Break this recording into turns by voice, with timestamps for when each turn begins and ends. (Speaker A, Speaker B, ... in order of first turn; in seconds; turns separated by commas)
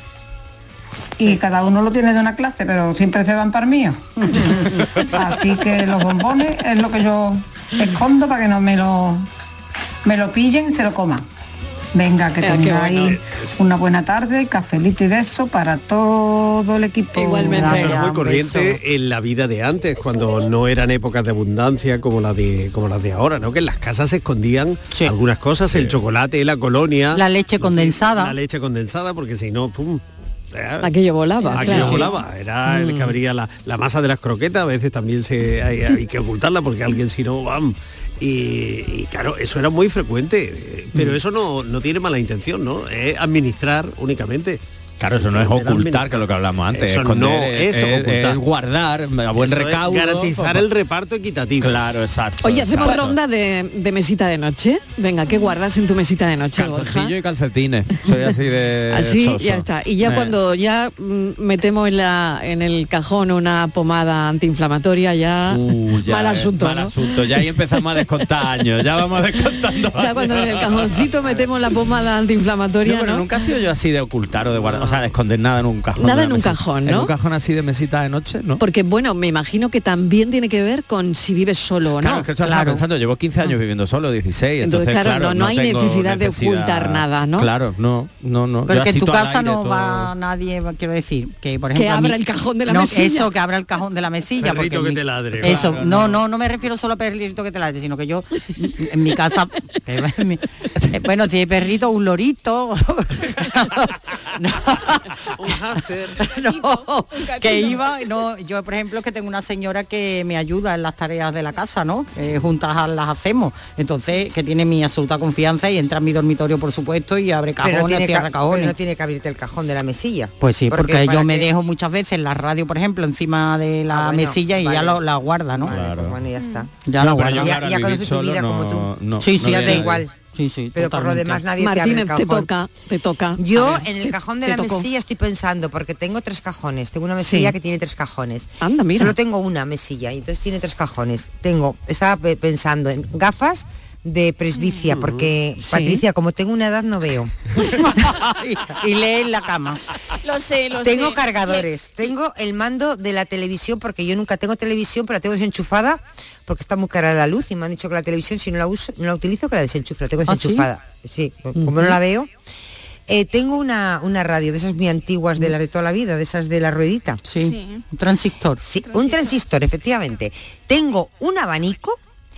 Speaker A: 1.2-9.2, Speaker A: 10.1-11.2, Speaker A: 11.9-17.9, Speaker B: 12.4-13.2, Speaker C: 13.2-13.5, Speaker B: 17.1-18.0, Speaker C: 17.6-30.9, Speaker D: 17.7-18.8, Speaker D: 27.1-28.4, Speaker B: 30.8-32.1, Speaker C: 31.5-48.4, Speaker B: 32.7-33.1, Speaker E: 45.0-50.6, Speaker C: 49.4-51.8, Speaker E: 51.6-53.2, Speaker B: 52.4-57.1, Speaker E: 56.5-60.4, Speaker B: 58.9-66.9, Speaker E: 65.5-71.4, Speaker B: 70.0-73.2, Speaker E: 72.8-78.6, Speaker B: 76.0-77.1, Speaker B: 78.6-82.2, Speaker E: 82.0-90.1, Speaker D: 82.4-82.8, Speaker B: 84.6-87.5, Speaker D: 88.7-105.1, Speaker B: 91.7-93.3, Speaker C: 94.4-96.0, Speaker E: 95.4-96.2, Speaker C: 105.4-106.3, Speaker D: 106.2-118.8, Speaker F: 106.3-107.9, Speaker G: 117.6-121.5, Speaker D: 120.4-125.7, Speaker G: 123.9-125.0, Speaker G: 125.6-126.7, Speaker E: 125.7-126.2, Speaker F: 126.4-126.7, Speaker D: 126.8-127.6, Speaker E: 127.0-130.0, Speaker G: 127.4-130.1, Speaker D: 129.2-131.4, Speaker G: 130.7-132.5, Speaker B: 131.6-134.8, Speaker G: 133.4-147.3, Speaker B: 137.2-137.5, Speaker B: 138.6-139.1, Speaker C: 144.9-145.3, Speaker B: 145.6-146.0, Speaker D: 147.6-149.9, Speaker F: 150.2-151.7, Speaker G: 150.8-162.3, Speaker D: 160.2-160.7, Speaker B: 161.6-161.9, Speaker G: 163.1-167.2, Speaker D: 167.2-168.6, Speaker F: 167.4-167.8, Speaker G: 168.6-172.0, Speaker F: 168.8-169.4